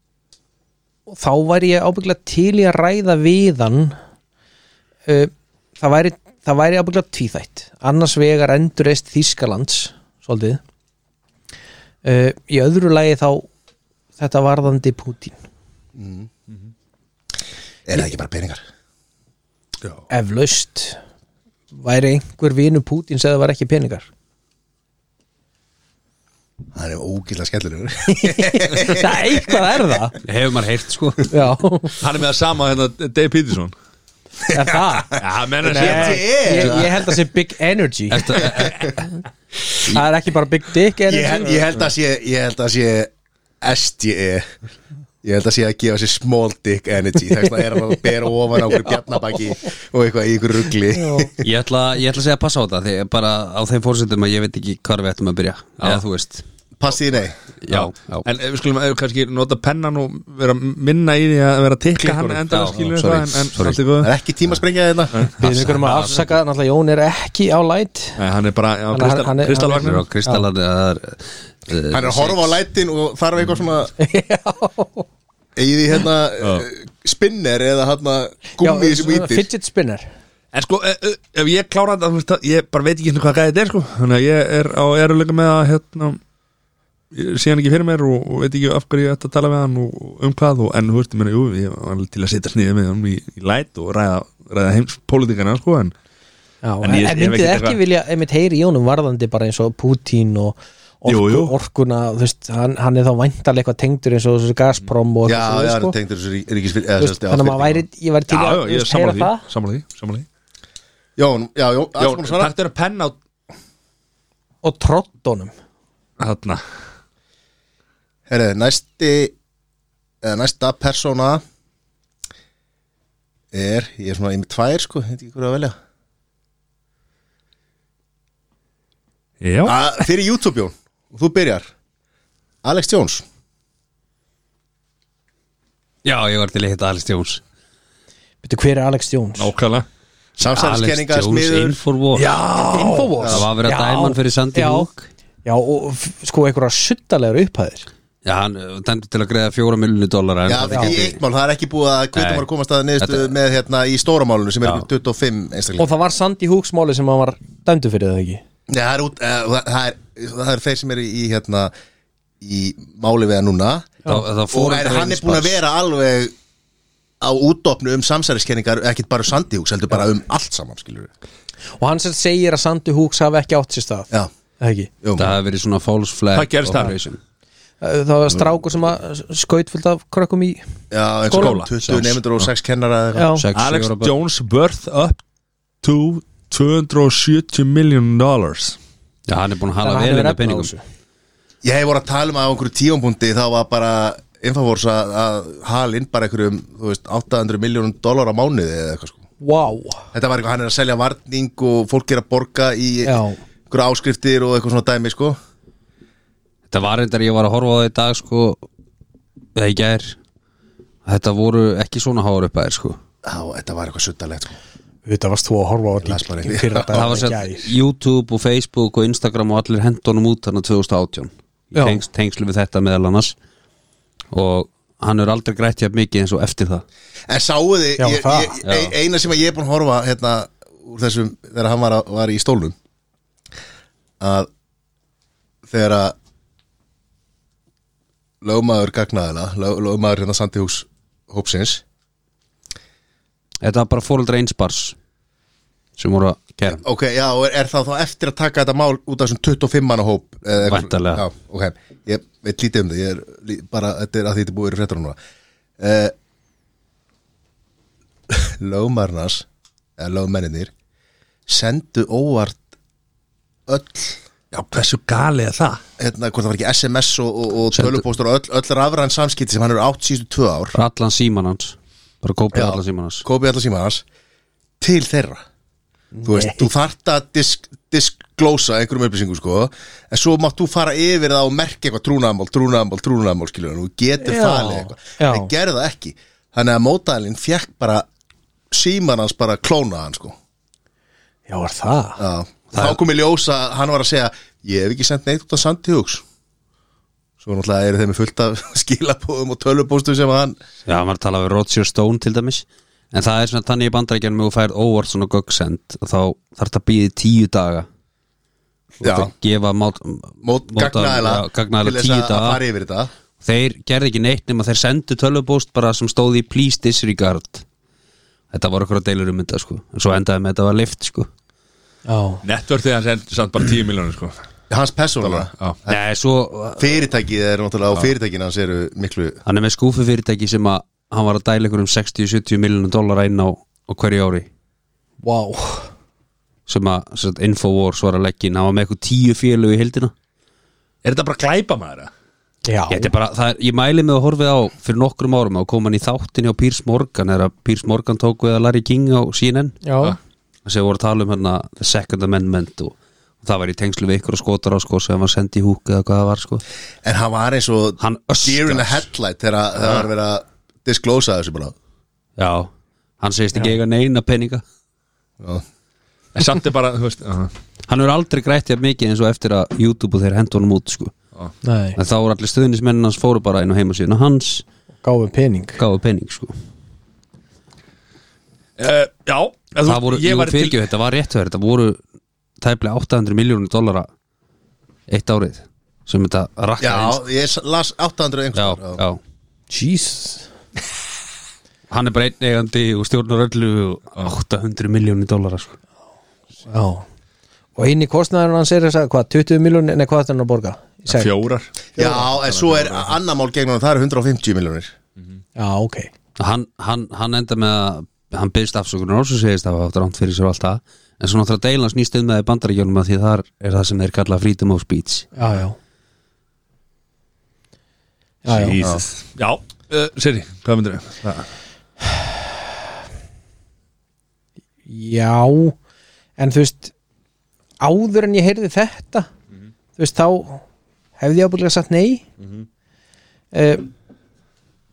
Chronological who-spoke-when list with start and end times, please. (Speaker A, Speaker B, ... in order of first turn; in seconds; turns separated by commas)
Speaker A: 1.1-4.0, Speaker A: 5.1-10.6, Speaker A: 12.0-13.5, Speaker A: 14.2-15.3, Speaker B: 15.9-16.3, Speaker B: 17.9-18.6, Speaker A: 20.1-21.0, Speaker A: 21.7-24.1, Speaker B: 26.7-29.9, Speaker A: 28.1-30.2, Speaker C: 30.2-31.3, Speaker A: 31.3-32.0, Speaker D: 32.0-33.7, Speaker B: 34.5-37.1, Speaker A: 34.5-38.6, Speaker D: 35.2-36.7, Speaker C: 38.1-39.0, Speaker A: 39.8-41.6, Speaker B: 41.0-44.4, Speaker B: 45.2-51.4, Speaker A: 48.9-49.4, Speaker A: 50.9-51.3, Speaker C: 51.4-56.4, Speaker B: 56.8-57.4, Speaker C: 57.6-58.2, Speaker D: 57.7-64.1, Speaker B: 62.0-62.4, Speaker C: 62.5-63.8, Speaker B: 64.0-65.2, Speaker C: 65.4-66.3, Speaker A: 65.4-68.2, Speaker D: 68.2-70.0, Speaker A: 68.9-70.4, Speaker C: 69.7-72.6, Speaker B: 71.9-73.9, Speaker A: 74.0-75.1, Speaker B: 75.5-79.5, Speaker A: 78.6-80.1, Speaker D: 80.5-86.2, Speaker D: 87.1-95.9, Speaker A: 96.6-105.9, Speaker D: 96.8-97.8, Speaker D: 101.0-101.5, Speaker B: 105.2-107.8, Speaker A: 107.0-109.4, Speaker D: 108.3-110.2, Speaker B: 111.2-112.5, Speaker D: 112.0-113.2, Speaker A: 114.6-115.5, Speaker D: 116.2-116.6, Speaker B: 118.3-119.3, Speaker B: 120.2-121.4, Speaker B: 123.5-125.7, Speaker D: 129.4-129.8, Speaker B: 129.6-131.7, Speaker B: 132.6-133.2, Speaker C: 136.0-137.4, Speaker A: 138.4-139.5, Speaker D: 139.4-139.8, Speaker B: 140.4-141.8, Speaker C: 140.5-142.3, Speaker D: 142.2-143.1, Speaker A: 142.7-144.9, Speaker C: 143.2-145.1, Speaker B: 143.2-143.4, Speaker A: 145.4-147.9, Speaker C: 148.2-151.2, Speaker B: 150.4-155.9, Speaker A: 150.7-150.9, Speaker C: 152.1-152.5, Speaker C: 153.0-153.3, Speaker A: 155.8-158.4, Speaker B: 158.7-161.7, Speaker B: 162.4-166.3, Speaker C: 164.0-165.6, Speaker B: 167.2-171.1, Speaker A: 171.8-174.9, Speaker B: 175.0-175.3, Speaker C: 175.2-177.2, Speaker D: 176.3-176.9, Speaker A: 177.8-180.6, Speaker B: 180.9-183.3, Speaker A: 181.3-181.6, Speaker D: 181.3-182.2, Speaker A: 183.1-183.4, Speaker C: 183.3-184.1, Speaker D: 183.5-185.2, Speaker D: 185.8-188.8, Speaker C: 189.3-190.7, Speaker A: 189.8-190.8, Speaker B: 191.6-199.2, Speaker A: 199.4-200.0, Speaker B: 200.1-205.4, Speaker A: 203.0-203.4, Speaker C: 206.7-208.6, Speaker C: 209.6-210.2, Speaker C: 211.1-213.0, Speaker B: 213.2-214.6, Speaker A: 215.1-217.7, Speaker B: 216.0-217.2, Speaker C: 216.9-223.3, Speaker A: 221.7-222.0, Speaker C: 224.3-226.8, Speaker B: 227.3-232.7, Speaker A: 228.0-228.6, Speaker C: 228.6-228.9, Speaker B: 234.2-234.5, Speaker B: 235.7-236.1, Speaker B: 238.4-241.8, Speaker C: 243.6-245.0, Speaker C: 246.0-246.8, Speaker B: 246.7-255.2, Speaker C: 250.7-251.2, Speaker B: 255.8-256.1, Speaker B: 258.3-259.4, Speaker B: 260.0-260.7, Speaker B: 261.5-262.6, Speaker B: 263.7-264.2, Speaker D: 264.5-265.8, Speaker B: 266.0-270.8, Speaker C: 267.7-268.0, Speaker C: 270.7-273.2, Speaker B: 272.5-274.0, Speaker B: 274.8-275.4, Speaker A: 276.1-276.7, Speaker B: 276.2-288.1, Speaker A: 284.2-285.5, Speaker B: 288.7-290.4, Speaker A: 291.5-292.2, Speaker B: 292.2-296.2, Speaker C: 292.7-293.0, Speaker B: 297.4-300.6, Speaker C: 300.9-307.9, Speaker C: 309.0-312.6, Speaker B: 309.0-309.3, Speaker B: 310.4-313.1, Speaker C: 313.4-317.6, Speaker C: 318.5-321.3, Speaker A: 322.1-322.4, Speaker D: 322.4-324.4, Speaker B: 324.7-326.0, Speaker D: 325.2-325.8, Speaker C: 325.9-326.9, Speaker B: 326.8-329.4, Speaker C: 329.4-334.5, Speaker A: 335.2-335.9, Speaker C: 336.7-340.1, Speaker D: 341.0-342.1, Speaker A: 342.6-343.1, Speaker C: 342.9-349.8, Speaker A: 349.8-350.2, Speaker C: 350.6-356.6, Speaker B: 357.0-361.7, Speaker C: 358.0-359.1, Speaker C: 362.4-364.6, Speaker D: 366.3-367.5, Speaker C: 367.9-371.1, Speaker A: 371.6-372.0, Speaker C: 371.9-374.6, Speaker A: 375.0-375.8, Speaker C: 375.8-376.5, Speaker D: 378.8-380.8, Speaker C: 379.8-382.0, Speaker C: 382.6-384.1, Speaker C: 385.1-387.2, Speaker B: 386.8-389.0, Speaker C: 388.5-389.2, Speaker A: 389.7-390.4, Speaker C: 391.9-395.8, Speaker A: 396.6-397.0, Speaker A: 397.8-401.3, Speaker D: 401.1-403.1, Speaker B: 401.9-404.9, Speaker A: 405.6-406.1, Speaker C: 406.4-415.3, Speaker A: 415.3-415.8, Speaker A: 418.4-418.8, Speaker D: 418.5-421.5, Speaker A: 424.9-425.7, Speaker A: 426.4-426.9, Speaker A: 427.8-429.3, Speaker A: 430.0-430.6, Speaker A: 431.2-432.2, Speaker D: 432.4-432.6, Speaker A: 433.5-433.9